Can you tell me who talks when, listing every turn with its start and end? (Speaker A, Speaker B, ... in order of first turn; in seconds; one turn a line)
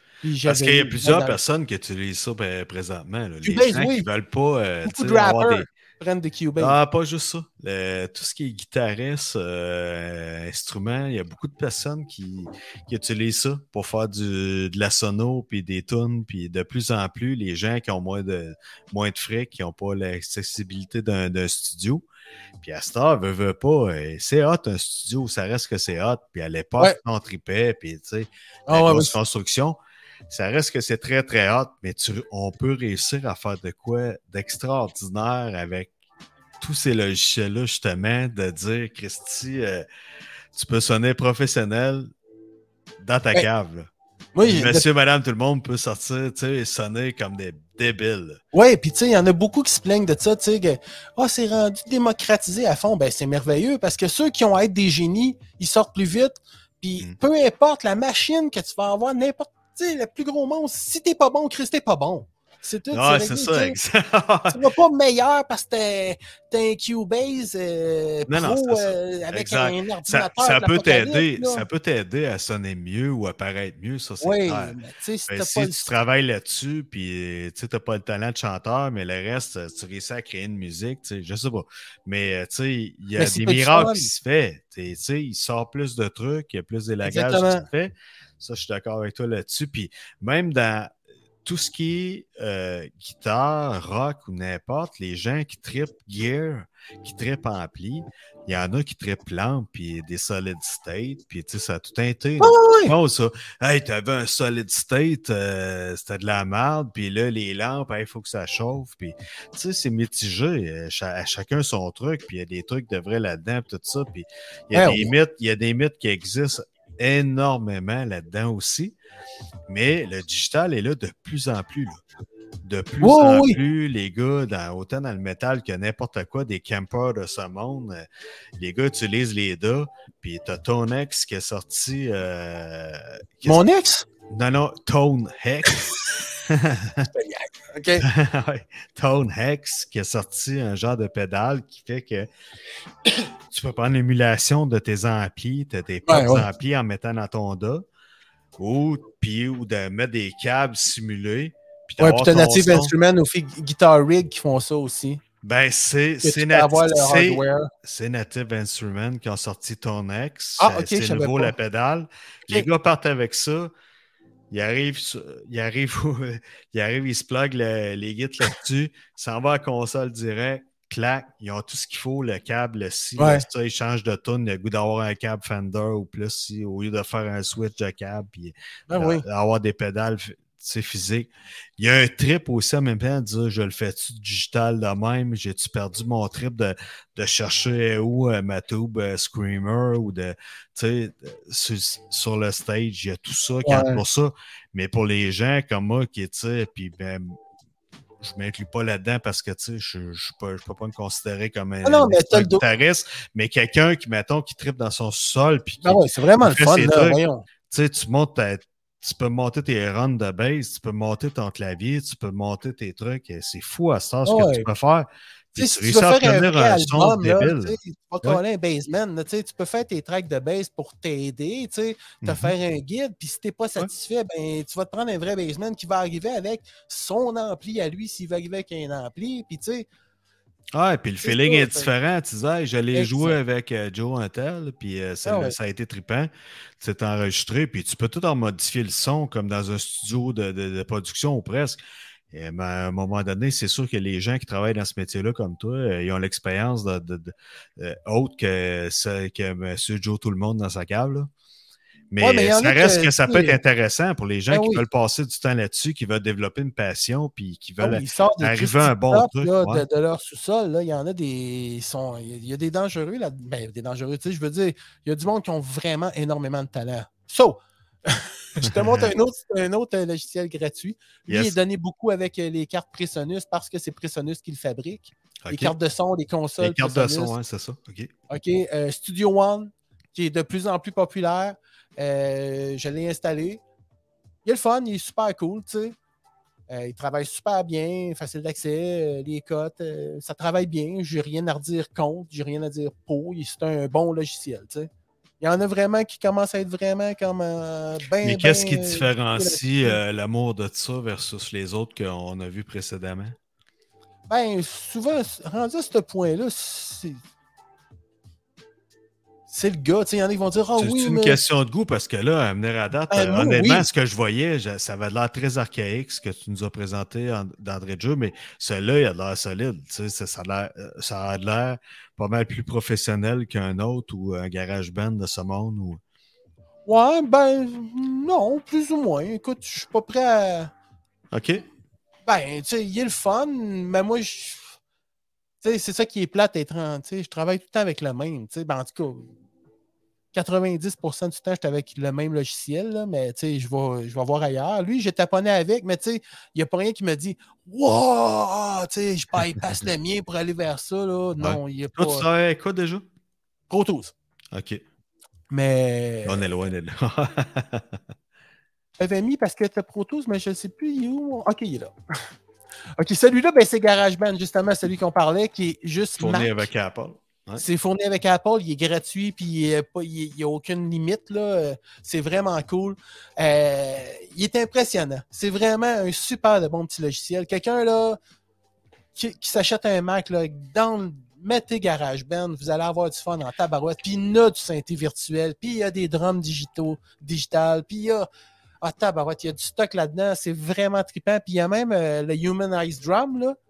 Speaker A: 0.2-1.4
Speaker B: 0.4-5.7
Speaker A: 3.4-4.1
Speaker A: 4.8-6.8
Speaker B: 6.6-22.0
Speaker B: 22.6-29.8
Speaker A: 28.7-29.1
Speaker B: 30.3-35.9
Speaker B: 36.6-39.9
Speaker B: 40.5-42.1
Speaker B: 43.0-43.9
Speaker A: 44.3-44.9
Speaker B: 44.4-48.4
Speaker A: 48.5-63.8
Speaker B: 62.9-64.6
Speaker A: 64.5-71.7
Speaker B: 68.3-74.8
Speaker A: 74.2-75.9
Speaker B: 75.3-119.0
Speaker A: 83.2-84.1
Speaker A: 87.0-87.7
Speaker A: 102.4-102.9
Speaker A: 114.7-115.1
Speaker B: 119.7-122.0
Speaker B: 122.6-128.1
Speaker A: 123.0-123.6
Speaker B: 128.6-133.6
Speaker A: 133.4-134.1
Speaker B: 134.3-135.9
Speaker B: 136.4-137.1
Speaker A: 137.1-138.1
Speaker B: 138.0-142.3
Speaker B: 143.5-147.8
Speaker A: 146.1-146.5
Speaker B: 148.6-152.9
Speaker A: 152.0-155.2
Speaker B: 155.4-163.7
Speaker A: 156.2-157.7
Speaker A: 160.6-161.5
Speaker B: 164.5-197.4
Speaker A: 173.2-173.4
Speaker A: 178.9-179.2
Speaker A: 193.6-194.0
Speaker B: 198.2-218.4
Speaker A: 201.8-202.6
Speaker A: 205.8-207.4
Speaker A: 214.2-214.7
Speaker A: 215.6-229.9
Speaker B: 222.2-222.5
Speaker B: 230.7-241.8
Speaker A: 231.2-231.9
Speaker A: 232.9-233.4
Speaker A: 235.2-235.5
Speaker B: 242.3-251.3
Speaker B: 252.1-259.9
Speaker A: 252.2-253.6
Speaker A: 254.5-254.8
Speaker A: 257.8-277.3
Speaker B: 268.6-269.1
Speaker B: 271.3-271.6
Speaker B: 275.4-275.7
Speaker B: 276.6-278.1
Speaker A: 278.3-283.6
Speaker A: 284.4-285.9
Speaker A: 286.7-294.9
Speaker A: 295.4-300.0
Speaker B: 298.2-303.4
Speaker A: 304.3-307.2
Speaker A: 309.5-311.4
Speaker B: 310.8-326.0
Speaker A: 313.1-313.9
Speaker A: 326.9-330.7
Speaker B: 331.3-331.6
Speaker A: 332.2-334.7
Speaker A: 335.6-339.3
Speaker A: 340.3-352.3
Speaker B: 351.4-353.1
Speaker A: 353.7-354.1
Speaker B: 354.5-354.8
Speaker A: 355.5-356.4
Speaker B: 356.2-358.0
Speaker A: 359.0-361.9
Speaker A: 363.0-366.7
Speaker B: 366.2-367.6
Speaker A: 367.6-378.2
Speaker A: 379.1-388.3
Speaker A: 388.8-393.6